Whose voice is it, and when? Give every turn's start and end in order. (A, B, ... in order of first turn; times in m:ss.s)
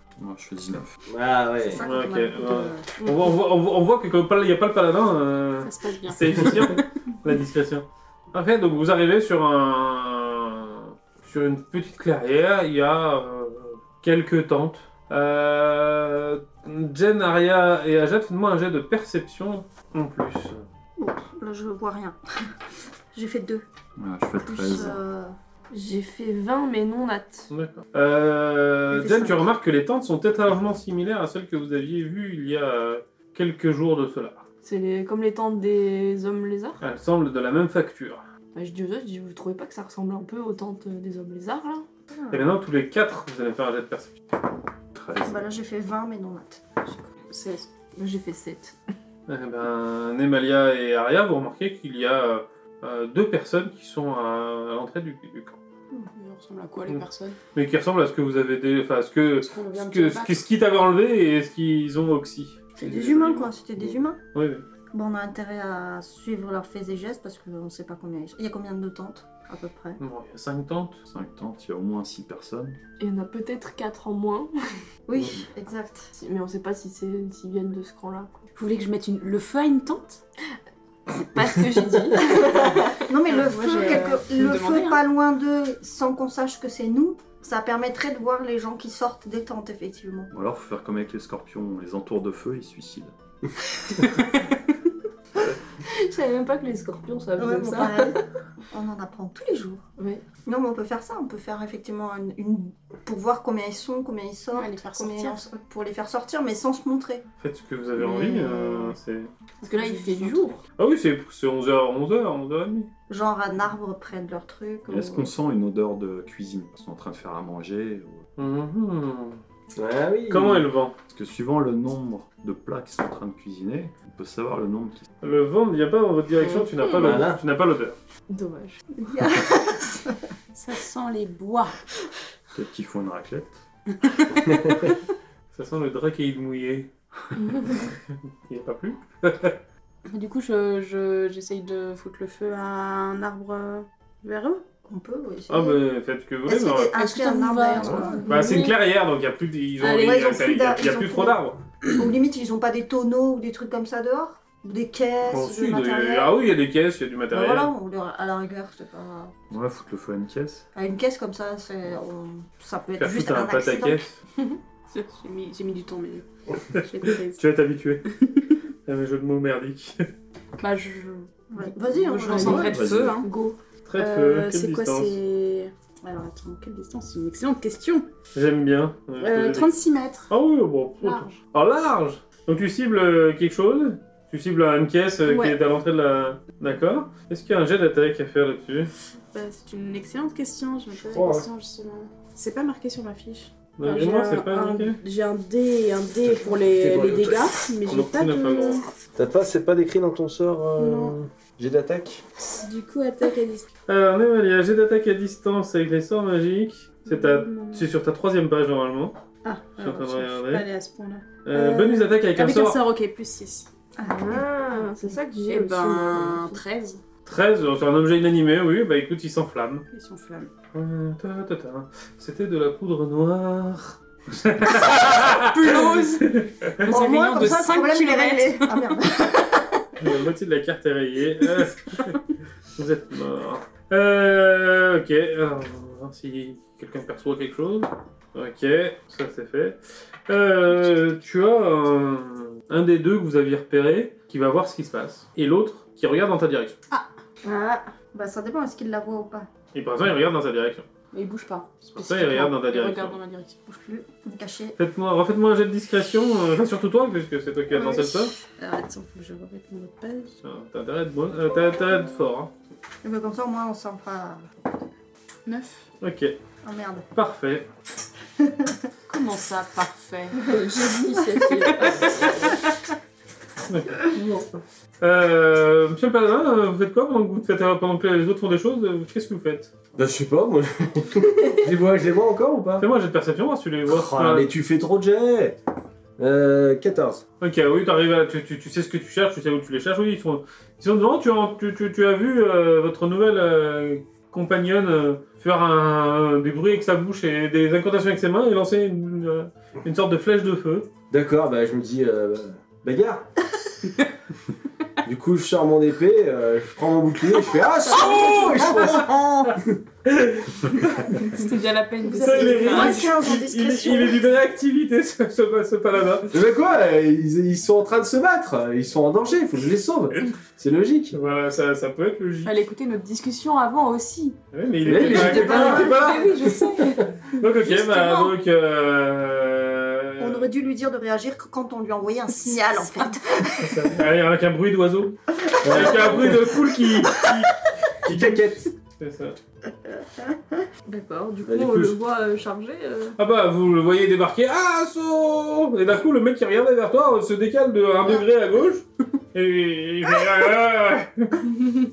0:00.2-0:00.9 A
0:01.1-0:01.8 B
0:01.6-0:02.9 C
0:01.8-0:20.6 D
0:05.6-0:06.8 E
0:21.0-0:22.2 C
0:23.1-0:23.6 C
0:24.0-0:25.0 A
0:24.4-0:25.4 C
0:25.7-0:27.5 F
0:27.5-0:34.4 D
0:28.9-0:29.4 C
0:34.6-0:36.8 F
0:36.8-0:38.2 D
0:38.5-0:41.8 F
0:42.1-0:42.5 C
0:42.3-0:44.1 D
0:44.9-0:45.5 A
0:45.2-0:47.0 C
0:47.3-0:47.7 E
0:48.0-0:48.8 F
0:49.3-0:55.5 D
0:56.1-0:57.4 E
0:57.5-1:03.5 D
0:59.4-1:00.4 E
1:02.8-1:04.2 C
1:04.3-1:04.6 D
1:04.9-1:10.0 C
1:10.0-1:11.0 D
1:11.1-1:12.8 A
1:13.0-1:14.5 F
1:15.1-1:16.1 C
1:15.2-1:15.4 A
1:16.1-1:18.4 F
1:18.6-1:20.2 E
1:21.1-1:22.9 F
1:22.3-1:30.3 C
1:23.2-1:25.0 E
1:30.3-1:33.1 A
1:35.8-1:38.2 F
1:37.4-1:38.2 C
1:38.7-1:39.8 C
1:40.4-1:47.2 C
1:44.5-1:45.4 E
1:47.4-1:49.3 D
1:48.0-1:49.0 C
1:49.6-1:50.6 E
1:49.6-1:50.6 F
1:50.8-1:52.9 D
1:53.1-1:55.3 C
1:54.9-1:58.2 A
1:58.4-1:59.4 D
1:59.7-2:00.7 B
2:00.3-2:01.0 D
2:01.1-2:05.0 A
2:05.2-2:08.0 D
2:06.4-2:07.2 F
2:06.9-2:07.4 B
2:08.3-2:08.8 F
2:09.0-2:10.2 C
2:10.5-2:11.8 E
2:12.5-2:13.6 A
2:14.5-2:14.8 B
2:15.5-2:16.9 D
2:17.7-2:18.0 D
2:18.5-2:19.6 D
2:20.1-2:24.6 E
2:24.8-2:25.8 C
2:25.5-2:26.9 D
2:26.4-2:28.6 C
2:27.0-2:28.7 E
2:27.8-2:28.0 A
2:28.2-2:31.6 D
2:28.3-2:28.6 F
2:29.8-2:31.4 C
2:29.9-2:30.4 F
2:31.9-2:36.3 C
2:35.3-2:37.7 D
2:37.3-2:39.3 C
2:39.5-2:40.6 A
2:40.7-2:44.0 C
2:43.0-2:44.2 D
2:44.9-2:47.4 E
2:46.7-2:48.0 D
2:48.8-2:50.0 D
2:50.6-2:53.4 E
2:51.5-2:52.7 C
2:52.3-2:53.6 F
2:52.6-2:53.2 A
2:53.8-2:55.2 D
2:54.0-2:58.0 E
2:58.3-2:59.7 D
2:59.2-3:00.3 E
3:00.3-3:08.9 D
3:01.0-3:01.4 E
3:05.2-3:05.6 E
3:09.3-3:18.9 E
3:11.1-3:11.5 B
3:13.8-3:15.0 D
3:16.2-3:17.5 B
3:17.8-3:18.8 D
3:19.2-3:22.2 B
3:20.8-3:21.1 E
3:22.4-3:23.7 E
3:23.9-3:29.1 D
3:27.0-3:27.9 E
3:29.4-3:33.7 E
3:29.8-3:30.6 D
3:31.4-3:32.8 D
3:34.0-3:34.9 C
3:34.0-3:36.6 F
3:35.4-3:37.0 E
3:37.2-3:39.8 D
3:39.9-3:40.5 E
3:40.7-3:47.0 D
3:44.8-3:46.3 E
3:46.8-3:48.9 E
3:46.9-3:49.6 C
3:50.0-3:52.2 D
3:52.7-3:59.8 D
4:00.3-4:06.8 D
4:07.4-4:09.5 C
4:09.7-4:10.8 D
4:11.1-4:13.6 E
4:11.9-4:13.2 D
4:13.7-4:14.8 C
4:14.8-4:18.3 D
4:17.7-4:18.2 C
4:18.6-4:20.3 E
4:20.4-4:22.5 D
4:23.0-4:24.5 C
4:25.4-4:25.8 E
4:26.0-4:26.4 D
4:26.6-4:27.1 C
4:27.1-4:27.7 D
4:28.4-4:28.7 C
4:29.1-4:30.5 E
4:30.4-4:32.3 F
4:31.3-4:31.7 C
4:33.7-4:39.7 D
4:40.0-4:42.8 B
4:42.8-4:44.5 D
4:43.9-4:45.6 B
4:46.2-4:47.2 B
4:47.4-5:00.9 D
5:01.1-5:03.3 B
5:05.0-5:09.8 B
5:07.9-5:09.1 D
5:08.0-5:09.5 C
5:10.0-5:11.4 D
5:11.0-5:13.3 E
5:12.0-5:14.2 C
5:12.2-5:16.3 D
5:16.3-5:21.1 B
5:21.1-5:22.5 D
5:22.4-5:24.4 E
5:24.5-5:26.4 D
5:24.8-5:27.0 B
5:24.9-5:27.0 E
5:27.3-5:30.5 D
5:27.6-5:28.3 E
5:30.2-5:33.9 C
5:32.4-5:33.1 E
5:33.6-5:39.4 D
5:35.6-5:36.5 B
5:38.0-5:38.7 B
5:39.8-5:40.6 C
5:40.8-5:43.2 F
5:41.4-5:42.0 B
5:43.2-5:51.5 D